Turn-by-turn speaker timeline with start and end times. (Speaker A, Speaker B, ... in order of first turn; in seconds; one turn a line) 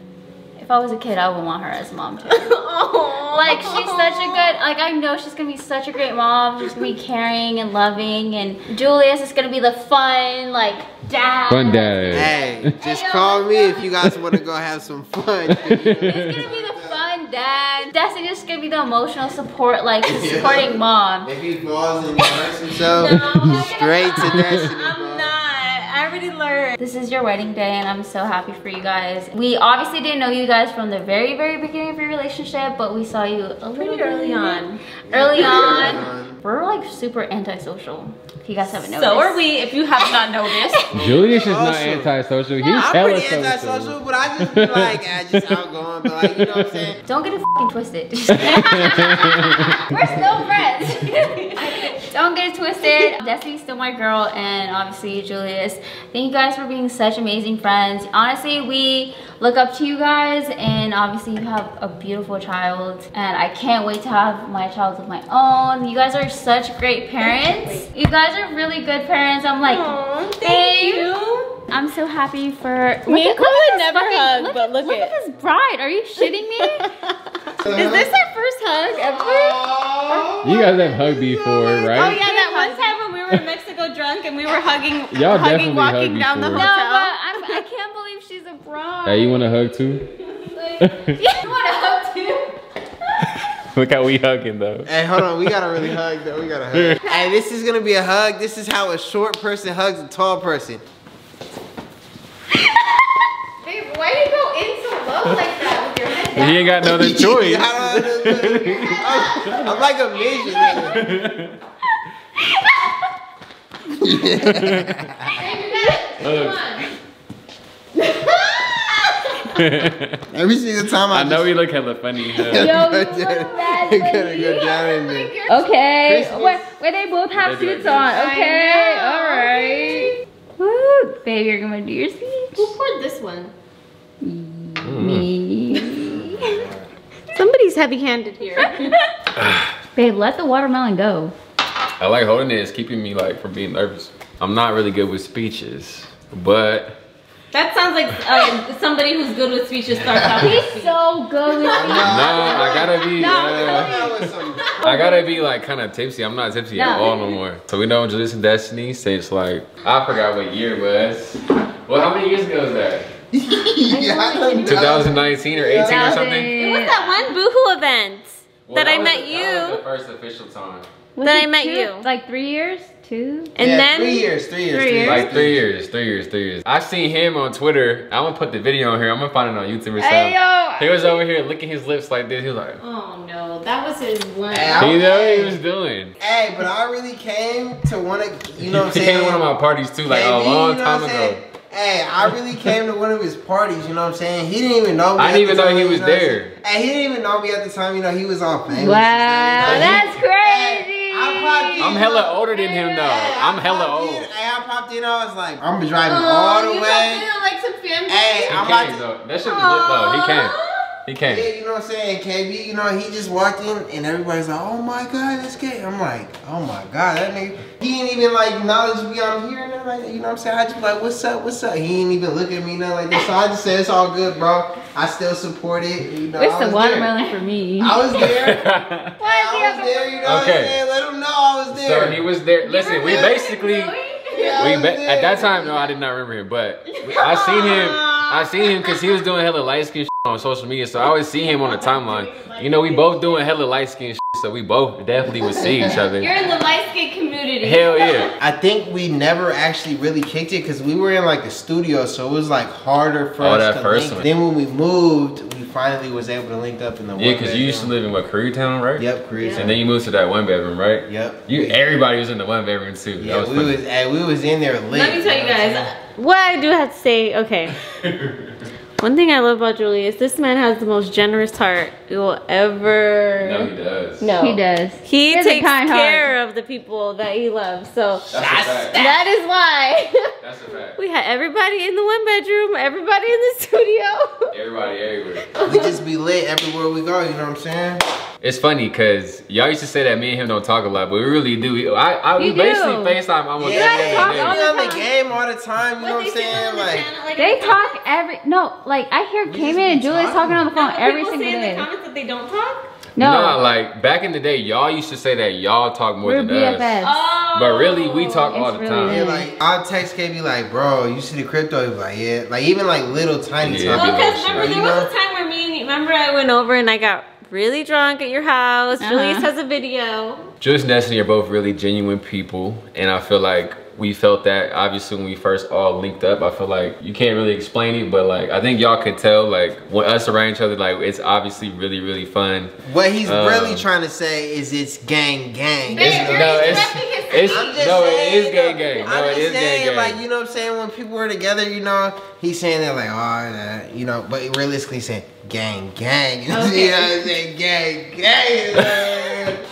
Speaker A: 0.6-2.5
Speaker B: 2.3-4.6
Speaker A: 3.3-13.9
Speaker C: 11.5-12.3
Speaker D: 12.1-17.1
Speaker C: 15.5-16.2
Speaker A: 16.0-21.3
Speaker D: 20.0-25.3
Speaker B: 22.9-26.8
Speaker C: 23.1-23.7
Speaker C: 24.2-24.7
Speaker A: 26.8-39.4
Speaker B: 33.8-34.8
Speaker D: 35.1-36.4
Speaker B: 35.3-36.1
Speaker B: 38.7-40.9
Speaker A: 40.0-41.0
Speaker C: 40.9-45.5
Speaker D: 41.0-42.1
Speaker A: 42.6-43.1
Speaker D: 42.8-47.0
Speaker C: 46.3-47.0
Speaker A: 47.1-71.1
Speaker C: 48.4-49.8
Speaker B: 51.3-51.9
Speaker B: 67.2-67.8
Speaker B: 69.7-71.6
Speaker A: 71.7-76.9
Speaker B: 73.1-75.2
Speaker B: 76.2-77.1
Speaker D: 77.6-78.1
Speaker B: 77.7-80.2
Speaker D: 79.1-80.7
Speaker C: 80.4-82.2
Speaker A: 81.2-83.0
Speaker B: 81.9-87.6
Speaker C: 85.1-86.7
Speaker A: 86.5-89.6
Speaker C: 89.0-90.0
Speaker A: 90.5-92.5
Speaker C: 90.8-91.2
Speaker C: 93.7-94.9
Speaker D: 94.9-100.8
Speaker C: 96.7-97.0
Speaker B: 103.6-106.6
Speaker C: 106.3-109.7
Speaker D: 106.8-111.0
Speaker C: 110.7-111.5
Speaker D: 114.0-115.3
Speaker C: 114.4-114.9
Speaker B: 115.4-116.8
Speaker A: 115.4-116.0
Speaker C: 116.2-116.6
Speaker B: 118.1-118.4
Speaker C: 119.5-120.2
Speaker D: 120.3-121.5
Speaker C: 121.1-122.7
Speaker A: 122.4-124.7
Speaker D: 122.4-125.3
Speaker B: 124.4-125.7
Speaker A: 125.5-132.7
Speaker D: 126.0-126.6
Speaker C: 127.3-128.1
Speaker B: 128.0-130.2
Speaker B: 132.6-133.5
Speaker A: 134.2-136.6
Speaker C: 134.8-135.3
Speaker D: 136.0-136.8
Speaker B: 137.3-139.0
Speaker C: 139.4-139.7
Speaker A: 139.9-141.3
Speaker C: 142.0-147.0
Speaker B: 147.5-152.8
Speaker D: 150.1-150.6
Speaker A: 150.3-155.3
Speaker D: 151.7-154.7
Speaker C: 152.1-154.0
Speaker C: 154.8-163.1
Speaker A: 156.8-157.3
Speaker D: 163.3-166.3
Speaker A: 163.9-165.2
Speaker C: 164.7-166.5
Speaker A: 165.8-167.2
Speaker B: 166.6-169.8
Speaker C: 168.7-170.9
Speaker A: 171.2-173.5
Speaker B: 171.2-172.1
Speaker B: 173.6-174.3
Speaker D: 173.6-175.6
Speaker A: 174.7-175.2
Speaker C: 175.0-182.8
Speaker A: 180.0-181.2
Speaker B: 182.8-184.9
Speaker D: 184.5-185.6
Speaker C: 184.8-186.2
Speaker D: 186.2-189.5
Speaker C: 188.6-191.4
Speaker D: 190.1-202.4
Speaker C: 195.2-196.5
Speaker A: 198.7-202.0
Speaker B: 199.6-199.9
Speaker C: 199.6-200.0
Speaker C: 201.8-204.3
Speaker D: 203.0-207.3
Speaker B: 206.1-208.5
Speaker D: 208.1-209.0
Speaker C: 208.4-211.5
Speaker B: 209.4-210.9
Speaker D: 211.3-227.1
Speaker A: 226.4-228.0
Speaker D: 227.8-228.6
Speaker C: 228.4-229.1
Speaker A: 229.2-230.6
Speaker D: 229.2-232.2
Speaker C: 230.2-230.8
Speaker C: 231.7-233.9
Speaker A: 232.6-234.7
Speaker D: 232.9-233.4
Speaker D: 234.3-235.9
Speaker C: 234.6-246.3
Speaker B: 237.0-239.0
Speaker B: 241.4-243.4
Speaker D: 245.4-246.0
Speaker B: 246.2-248.3
Speaker A: 246.5-247.2
Speaker C: 247.6-248.3
Speaker D: 248.4-257.9
Speaker C: 253.4-254.3
Speaker C: 257.2-263.8
Speaker D: 259.0-259.8
Speaker B: 259.4-259.6
Speaker D: 261.1-261.8
Speaker D: 263.2-265.9
Speaker B: 264.9-267.8
Speaker C: 268.0-268.6
Speaker B: 269.0-273.7
Speaker C: 273.4-274.3
Speaker B: 274.2-278.3
Speaker A: 274.4-276.3
Speaker C: 278.3-279.2
Speaker D: 278.3-278.9
Speaker B: 278.9-280.3
Speaker C: 280.4-281.0
Speaker B: 281.0-284.5
Speaker C: 284.5-285.5
Speaker B: 285.5-286.0
Speaker D: 285.6-288.0
Speaker C: 288.4-294.6
Speaker A: 292.4-295.1
Speaker D: 293.6-297.1
Speaker B: 296.0-298.0
Speaker A: 297.4-301.9
Speaker D: 299.5-300.7
Speaker B: 300.8-302.9
Speaker A: 303.2-303.6
Speaker C: 303.2-307.0
Speaker A: 306.2-307.2
Speaker B: 307.0-308.5
Speaker C: 307.5-309.2
Speaker A: 308.4-309.5
Speaker D: 309.0-315.1
Speaker C: 313.6-314.8
Speaker B: 313.9-320.5
Speaker A: 319.0-319.5
Speaker C: 320.6-332.7
Speaker D: 332.9-349.6
Speaker C: 333.2-333.9
Speaker B: 335.9-339.1
Speaker C: 336.0-340.2
Speaker A: 346.5-347.3
Speaker C: 348.8-349.4